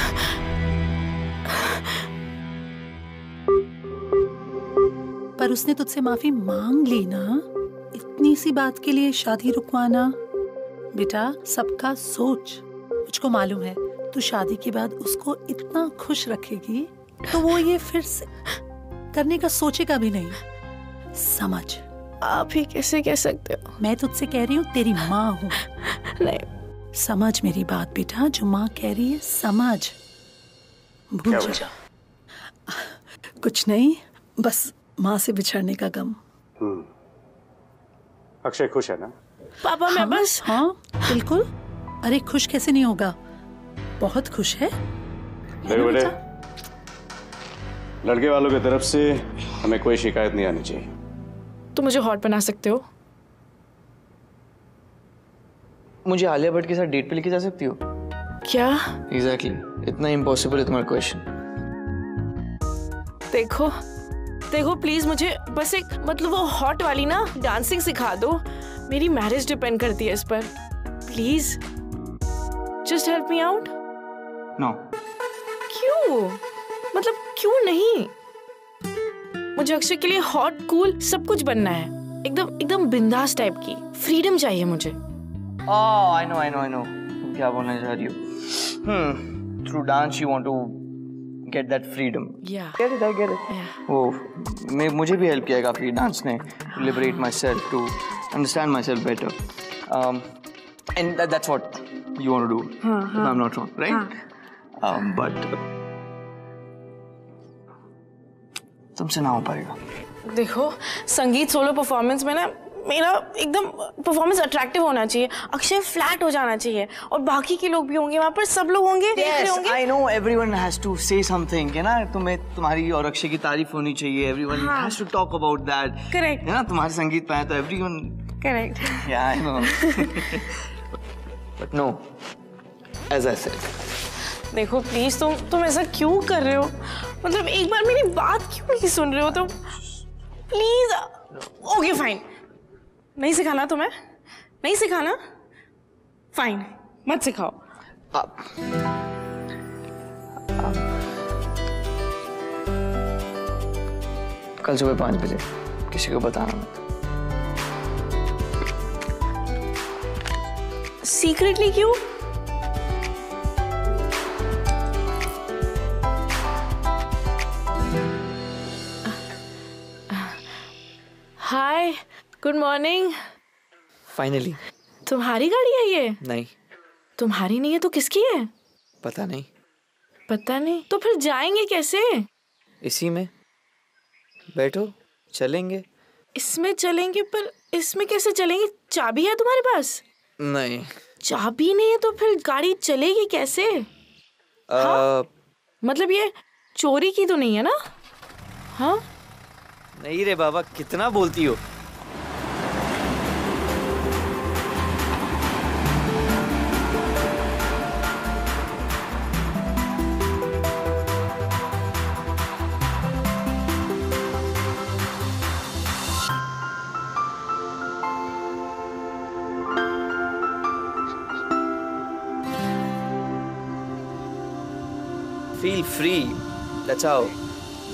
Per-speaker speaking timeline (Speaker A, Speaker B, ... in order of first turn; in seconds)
Speaker A: 5.4-10.2, 10.9-18.3, 19.1-20.4, 21.1-21.8, 23.8-25.6, 26.9-29.9, 31.1-31.7, 32.7-36.2, 39.9-41.5, 42.0-43.2, 44.0-44.7, 45.6-46.1
Speaker B: 22.2-23.8, 25.8-26.5, 39.6-40.6, 51.8-52.8, 58.5-59.0, 63.3-63.8, 64.5-70.5, 71.1-71.6, 72.8-73.7, 75.7-76.4, 76.9-78.1, 79.6-85.0, 92.4-92.8, 93.5-93.8, 102.8-103.3, 110.3-119.8, 124.5-125.0, 126.1-126.4, 128.4-129.1, 129.7-130.1, 134.5-139.6, 140.5-142.2, 143.2-143.9, 144.6-145.2, 146.3-147.6, 161.0-162.0, 170.1-170.4, 171.4-173.2, 175.1-176.2, 177.2-178.5, 180.3-182.3, 186.4-190.0, 191.2-193.9, 194.8-195.0, 195.8-197.8, 198.8-199.0
Speaker C: 31.3-31.6, 36.6-36.9, 38.4-39.1, 45.7-46.1, 48.0-50.9
Speaker D: 56.0-57.8, 59.1-61.3, 85.7-90.9, 91.5-99.3, 99.9-100.3, 101.0-104.1, 104.8-105.5, 109.0-109.8, 119.2-128.3, 128.9-130.5, 131.6-132.0, 133.1-133.7, 148.1-148.4, 154.6-156.8, 174.1-174.6, 176.2-176.5, 179.0-179.5, 182.8-183.3, 184.5-185.8, 190.4-190.9, 194.7-195.3, 200.0-201.6, 225.6-227.3